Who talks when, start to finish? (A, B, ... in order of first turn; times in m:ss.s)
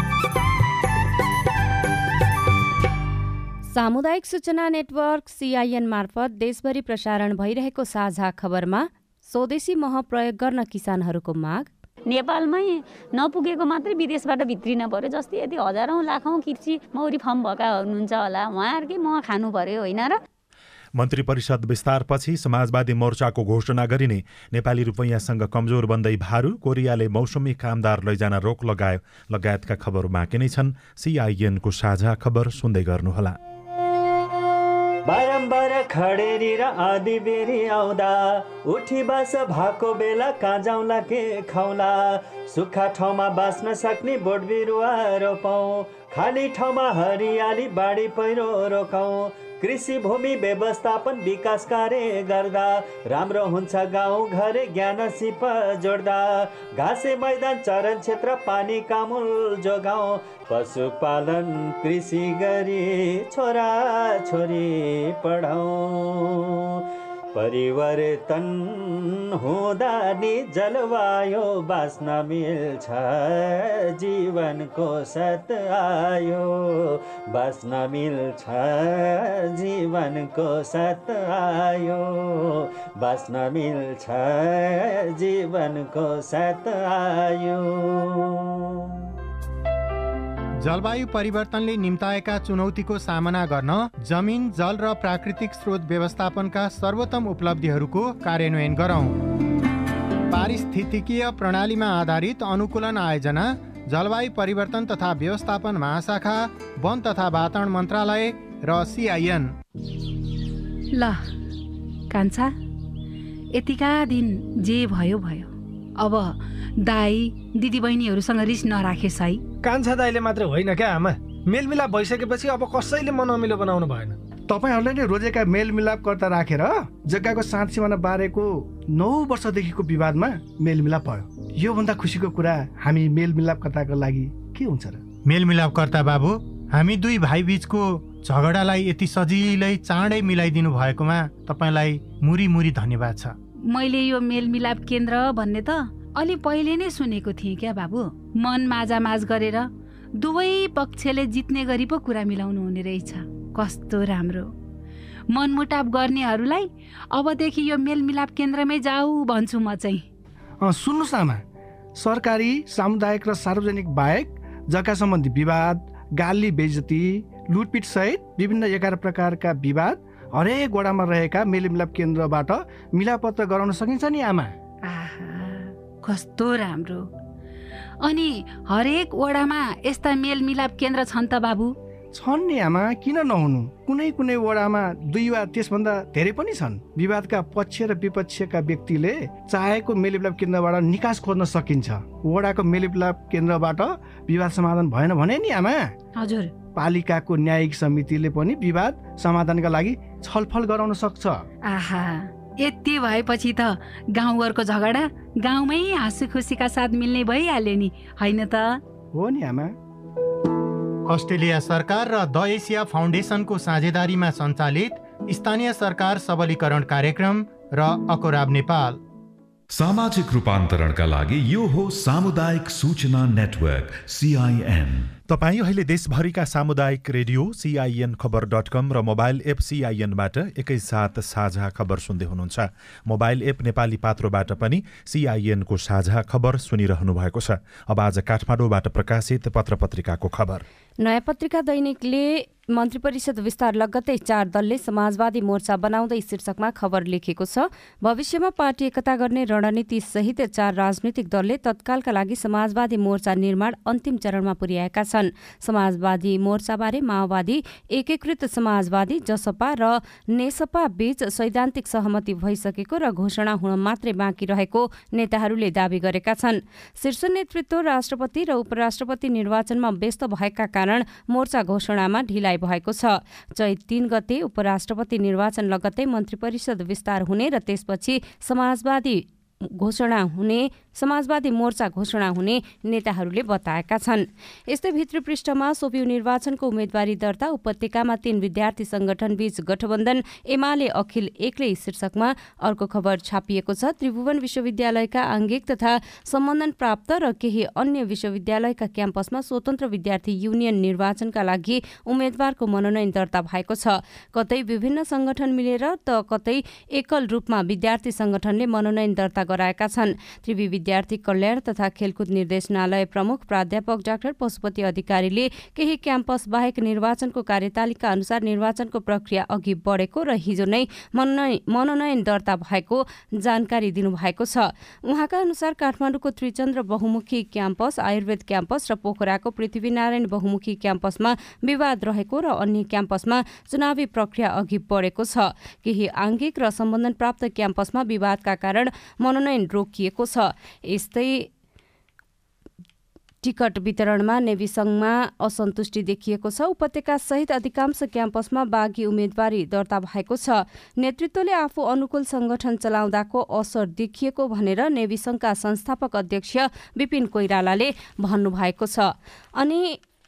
0:03.7-0:11.7 A
0:12.1-0:20.2 B
0:21.0-0:33.4 C
0:35.0-1:28.9 D
1:30.6-1:39.2 E
1:40.3-1:49.5 E
1:50.9-1:51.2 F
1:52.1-1:52.5 F
1:53.5-1:59.4 F
1:59.6-2:04.2 G
2:04.5-2:15.0 H
2:15.2-2:23.4 E
2:23.7-2:34.5 F
2:35.3-2:40.0 F
2:40.6-2:41.4 H
2:42.0-2:54.5 H
2:54.8-2:57.1 F
2:58.0-3:01.8 F
3:02.1-3:15.9 H
3:16.2-3:16.5 F
3:16.8-3:21.4 H
3:21.7-3:28.8 F
3:29.1-3:29.8 H
3:31.1-3:39.0 E
3:39.7-3:45.1 I
3:45.3-4:00.6 C
4:01.0-5:41.5 A
5:43.4-6:00.0 A